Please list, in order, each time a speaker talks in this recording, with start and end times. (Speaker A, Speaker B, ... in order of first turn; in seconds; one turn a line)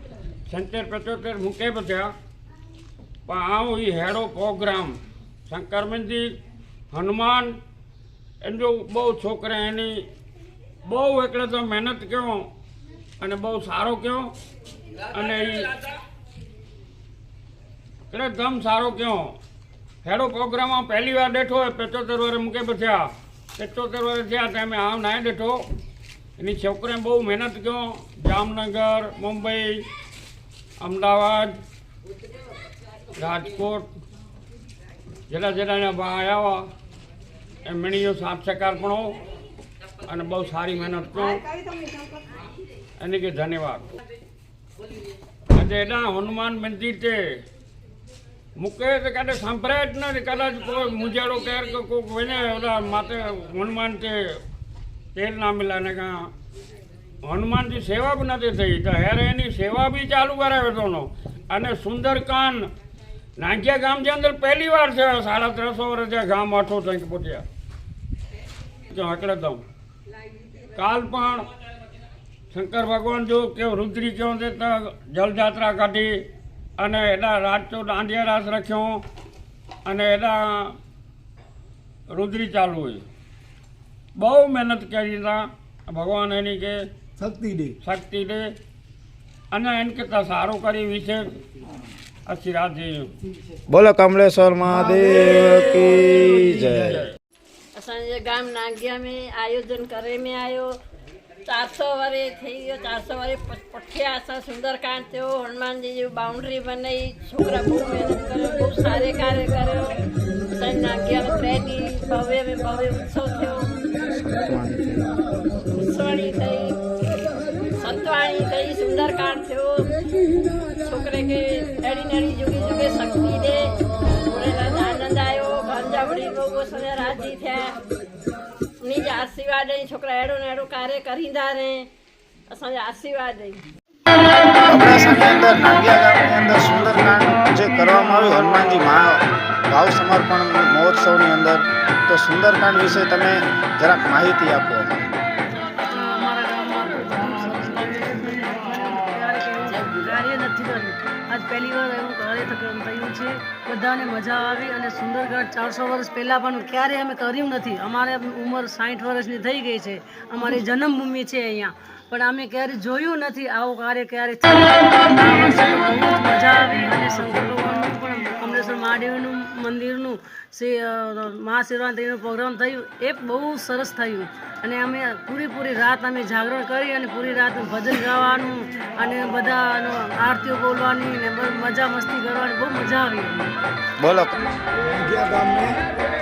Speaker A: 0.5-2.1
Speaker A: 3.3-6.3
Speaker A: 6.9-7.6
Speaker A: 8.4-10.1
Speaker A: 10.8-12.5
Speaker A: 13.2-14.3
Speaker A: 15.1-15.7
Speaker A: 18.1-19.4
Speaker A: 20.0-25.6
Speaker A: 26.4-29.9
Speaker A: 30.8-31.6
Speaker A: 33.2-33.9
Speaker A: 35.3-36.7
Speaker A: 37.6-39.1
Speaker A: 40.0-41.4
Speaker A: 43.0-43.9
Speaker A: 45.5-47.4
Speaker A: 48.6-54.4
Speaker A: 55.1-56.3
Speaker A: 57.2-62.7
Speaker A: 63.4-67.5
Speaker A: 68.9-69.6
Speaker A: 70.8-71.5
Speaker A: 72.5-76.2
Speaker A: 76.8-79.0
Speaker A: 79.8-80.8
Speaker A: 82.1-83.0
Speaker A: 84.2-86.8
Speaker B: 87.2-87.8
Speaker A: 87.8-88.5
Speaker A: 89.5-91.3
Speaker A: 92.3-93.1
Speaker C: 93.7-96.9
Speaker B: 94.7-97.1
Speaker A: 96.7-97.1
Speaker D: 97.8-100.8
Speaker D: 101.5-110.0
Speaker D: 110.5-113.7
Speaker D: 115.7-116.8
Speaker D: 117.8-119.9
Speaker D: 120.8-127.8
Speaker D: 128.8-131.9
Speaker D: 132.5-133.6
Speaker C: 134.7-145.1
Speaker E: 145.9-183.5
Speaker C: 184.0-184.4
Speaker B: 184.9-185.8